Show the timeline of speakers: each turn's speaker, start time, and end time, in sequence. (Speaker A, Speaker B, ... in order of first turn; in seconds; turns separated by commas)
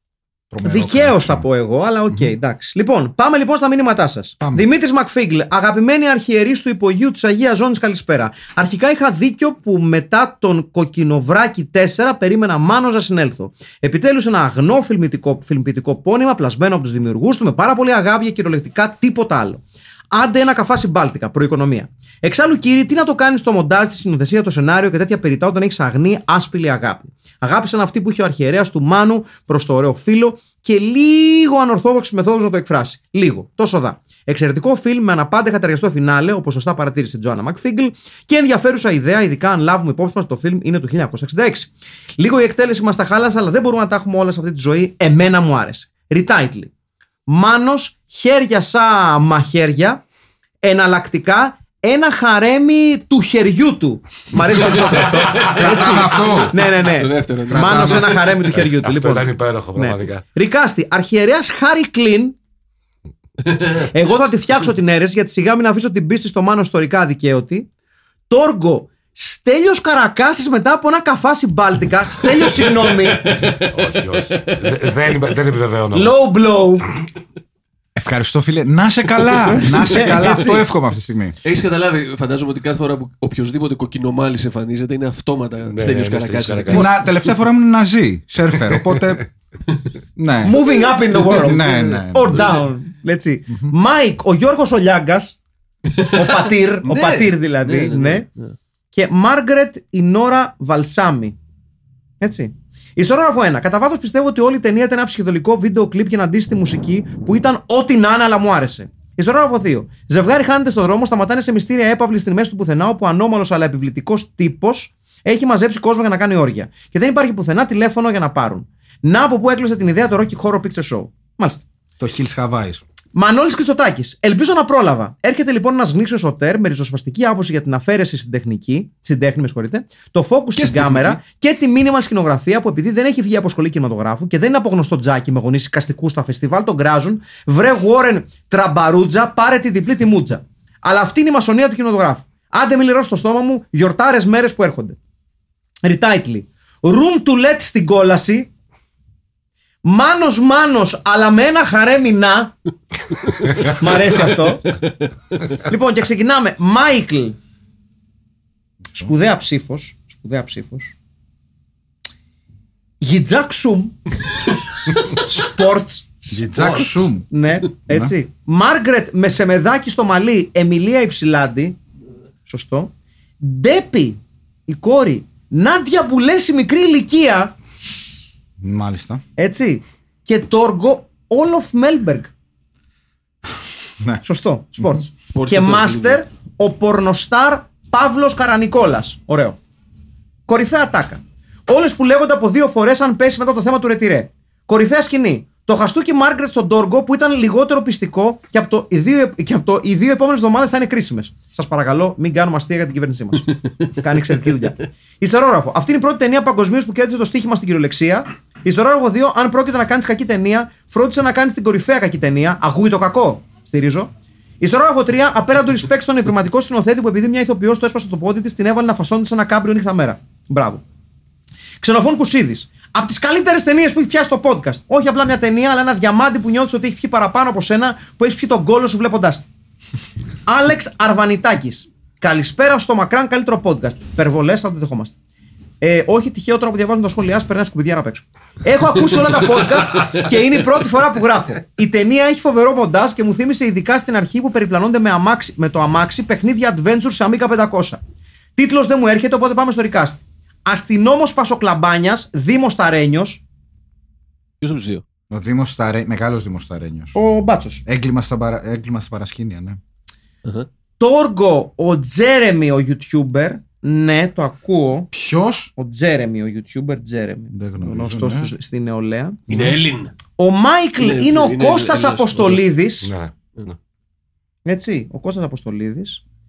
Speaker A: 0.5-1.5, Speaker B: 0.6-46.7, Speaker B: 47.3-50.0, Speaker B: 50.6-62.4, Speaker C: 54.6-58.4, Speaker A: 55.4-56.5, Speaker A: 57.5-58.1, Speaker D: 58.5-60.2, Speaker B: 63.8-67.7, Speaker B: 68.3-73.7, Speaker D: 73.5-76.2, Speaker B: 75.9-76.9, Speaker A: 78.0-81.3, Speaker B: 79.5-80.6, Speaker C: 81.4-87.3, Speaker D: 85.7-87.0, Speaker A: 86.7-89.2, Speaker A: 90.2-90.6, Speaker B: 90.4-95.4, Speaker A: 91.3-92.5, Speaker C: 92.3-92.6, Speaker C: 95.9-98.5, Speaker B: 96.0-98.2, Speaker B: 98.9-101.4, Speaker B: 102.2-121.6, Speaker A: 122.0-122.8, Speaker B: 123.1-145.0, Speaker C: 130.6-131.2, Speaker B: 145.8-148.5, Speaker B: 149.8-152.5, Speaker B: 153.6-154.7, Speaker B: 155.6-157.4, Speaker B: 158.9-160.9, Speaker B: 163.0-163.9, Speaker B: 165.0-166.1, Speaker C: 166.3-167.1, Speaker A: 166.3-167.3, Speaker B: 167.3-171.8, Speaker A: 167.9-168.1, Speaker B: 172.4-177.5, Speaker A: 178.6-179.2, Speaker B: 179.4-182.3, Speaker B: 184.2-189.6, Speaker C: 185.3-186.2, Speaker B: 190.5-220.8, Speaker B: 221.8-229.5, Speaker B: 230.4-235.2, Speaker B: 235.8-248.0, Speaker B: 248.6-253.4, Speaker C: 254.6-255.0, Speaker A: 255.3-257.1, Speaker B: 257.1-257.8, Speaker A: 257.9-259.8, Speaker B: 261.0-265.1, Speaker A: 265.1-265.7, Speaker B: 265.8-269.4, Speaker A: 267.5-268.5, Speaker A: 269.5-269.8, Speaker C: 269.5-270.1, Speaker B: 270.4-273.1, Speaker C: 271.0-272.6, Speaker D: 273.0-273.4, Speaker B: 274.6-276.2